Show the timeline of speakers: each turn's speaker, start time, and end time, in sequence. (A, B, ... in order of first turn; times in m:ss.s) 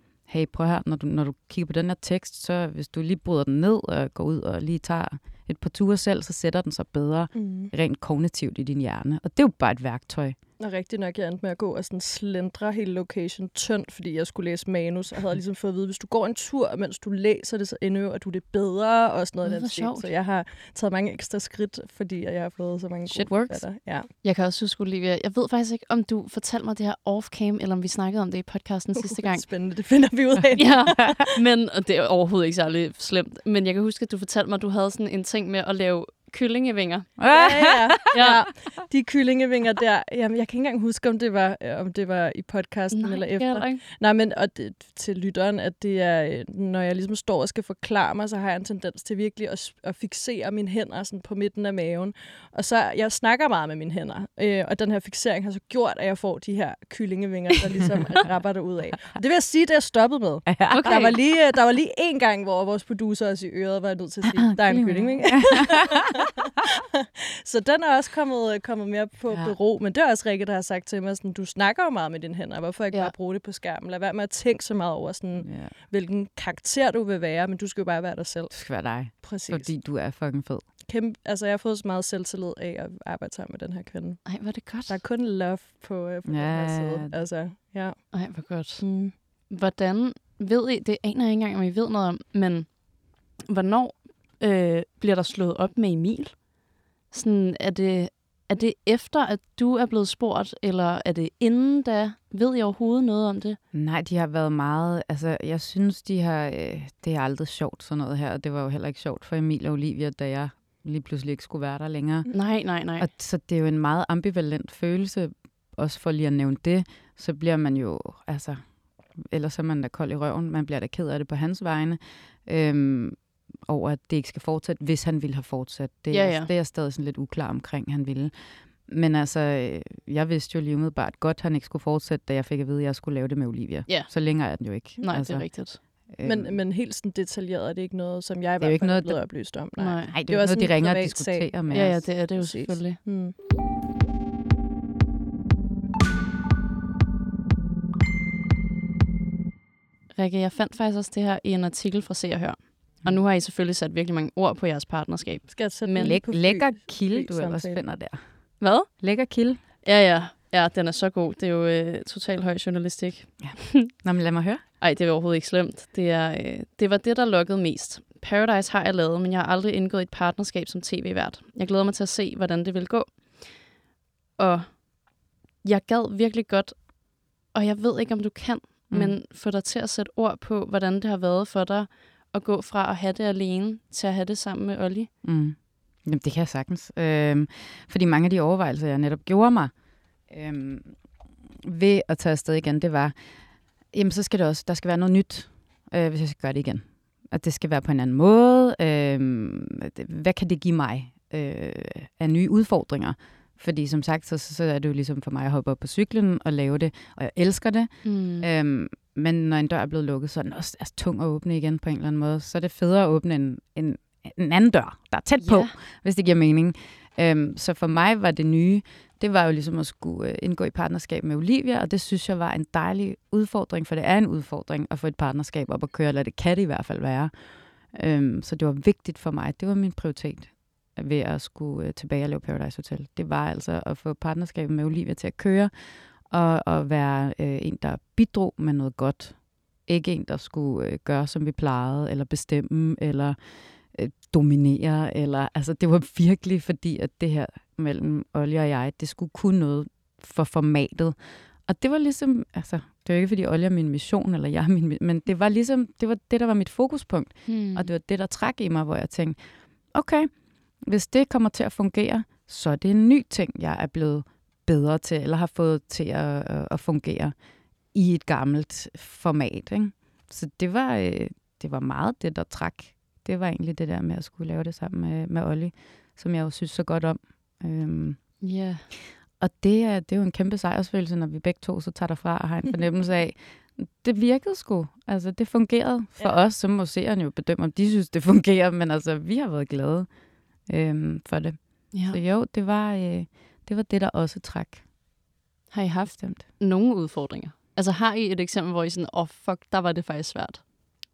0:00.2-0:10.4 A
0:07.3-0:07.7 B
0:10.6-0:24.1 B
0:19.4-0:20.1 C
0:23.1-0:23.6 A
0:24.2-0:29.5 C
0:29.0-0:31.2 B
0:30.6-0:37.2 C
0:37.2-0:38.1 A
0:37.3-1:19.7 B
0:38.1-0:38.4 C
0:42.9-0:43.8 C
1:00.5-1:00.9 A
1:00.7-1:01.2 C
1:04.6-1:05.8 A
1:09.3-1:09.6 A
1:15.4-1:15.8 A
1:18.5-1:20.6 A
1:20.9-1:29.1 B
1:24.3-1:25.0 C
1:26.3-1:27.2 A
1:28.1-1:43.6 C
1:43.7-2:16.6 A
1:52.3-1:53.1 C
2:06.1-2:06.5 C
2:13.9-2:15.8 C
2:16.2-2:23.4 B
2:18.6-2:19.2 A
2:19.8-2:20.2 C
2:20.1-2:22.0 A
2:21.7-2:23.0 C
2:30.1-2:36.2 C
2:35.5-2:37.8 B
2:36.0-2:39.6 A
2:38.6-2:39.1 C
2:39.8-2:43.9 C
2:43.4-2:44.6 A
2:44.8-2:53.7 C
2:54.4-3:05.1 C
2:58.9-2:59.2 A
3:05.2-3:09.8 A
3:10.3-3:11.1 A
3:11.6-3:13.2 A
3:13.9-4:27.3 A
3:28.0-3:28.5 C
3:35.4-3:35.7 C
4:17.5-4:17.9 C
4:27.9-4:38.4 A
4:38.4-4:38.9 C
4:39.4-4:54.8 A
4:51.9-4:52.2 C
4:55.7-5:00.6 C
4:56.1-4:56.4 A